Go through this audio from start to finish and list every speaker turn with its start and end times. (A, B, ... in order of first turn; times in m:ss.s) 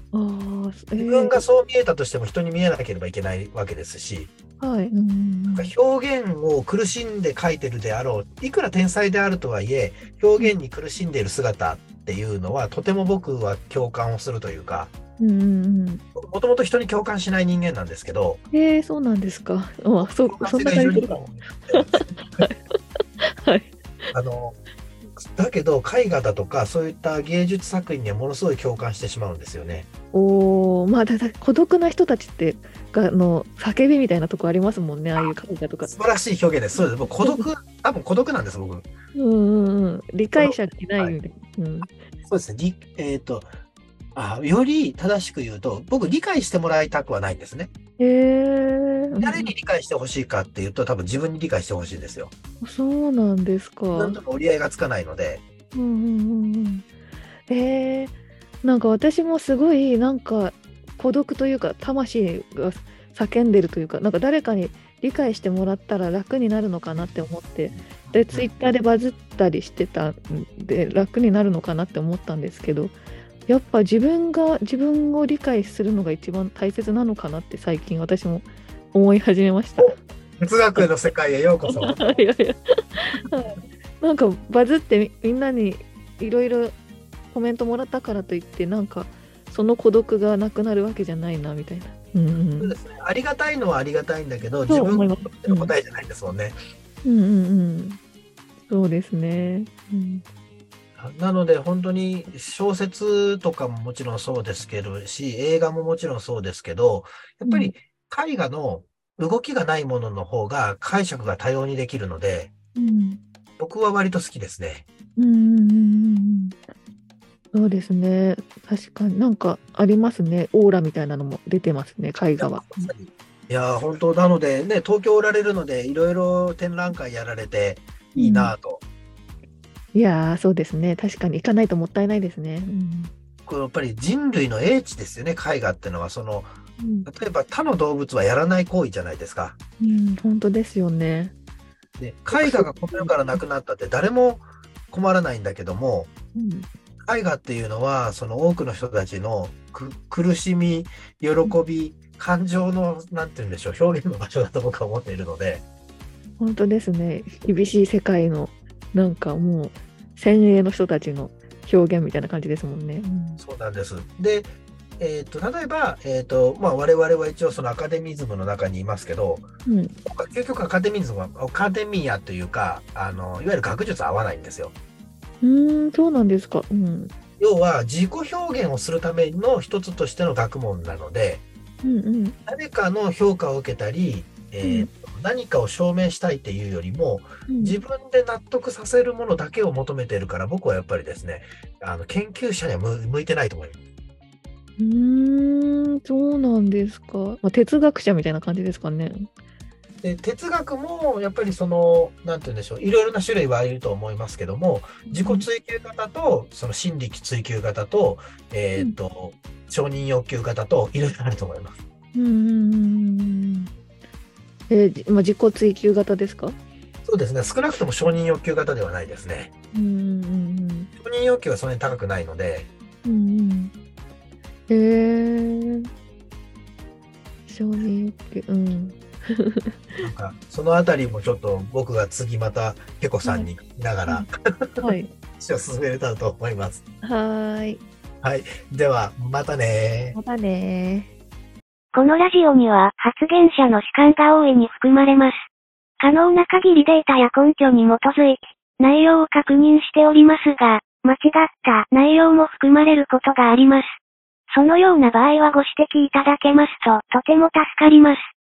0:00.1-0:01.4 A
0:01.0-0:04.3 B
0:04.6-0:05.7 A
0:05.5-0:14.9 B
0:15.2-0:16.0 A
0:16.2-0:18.4 B
0:18.5-0:21.2 A
0:20.0-0:22.1 B
0:21.7-0:23.8 A
0:24.1-0:24.6 B
0:25.2-0:29.9 B
0:30.1-0:35.9 A
0:35.8-0:38.9 B
0:37.2-0:37.5 A
0:39.2-0:41.9 A
0:40.4-0:41.2 B
0:42.3-0:43.5 B
0:44.2-0:47.7 B
0:48.0-0:49.5 A
0:49.2-0:52.3 B
0:52.6-0:54.2 A
0:53.9-0:55.4 B
0:55.7-0:56.9 A
0:57.5-1:13.0 A
1:07.9-1:08.5 B
1:13.5-1:20.0 A
1:19.8-1:22.1 B
1:21.7-1:26.8 A
1:27.3-1:32.8 A
1:32.6-1:36.6 B
1:34.7-1:35.7 A
1:37.0-1:38.0 A
1:38.7-1:40.2 A
1:41.0-1:52.5 B
1:47.5-1:47.7 A
1:52.8-1:53.2 A
1:53.6-1:54.8 B
1:55.2-1:56.6 A
1:57.5-2:02.9 A
2:02.4-2:08.8 B
2:08.2-2:08.5 A
2:09.9-2:13.1 A
2:13.5-2:16.5 B
2:16.8-2:17.1 A
2:17.1-2:19.6 B
2:19.8-2:21.3 A
2:22.0-2:26.1 B
2:22.3-2:23.4 A
2:26.4-2:26.7 A
2:27.0-2:35.6 B
2:36.4-2:43.4 A
2:43.4-2:49.5 B
2:49.7-2:49.9 A
2:50.0-2:54.7 B
2:55.4-2:57.1 A
2:57.4-3:01.4 B
3:01.8-3:02.4 A
3:02.5-3:13.8 B
3:04.6-3:04.9 A
3:07.5-3:07.8 A
3:14.8-3:19.2 A
3:20.0-3:31.8 B
3:25.1-3:25.4 A
3:32.2-3:33.7 A
3:34.7-3:36.6 A
3:37.0-3:39.5 B
3:39.7-3:40.9 A
3:41.0-3:42.7 B
3:43.0-3:43.7 A
3:44.7-3:45.9 A
3:47.5-3:50.0 A
3:50.0-3:56.8 B
3:53.2-3:53.5 A
3:54.8-3:55.1 A
3:57.0-3:57.8 A
3:58.2-4:00.2 B
4:00.1-4:01.1 A
4:01.9-4:05.4 C
4:06.0-4:13.9 C
4:14.5-4:18.2 C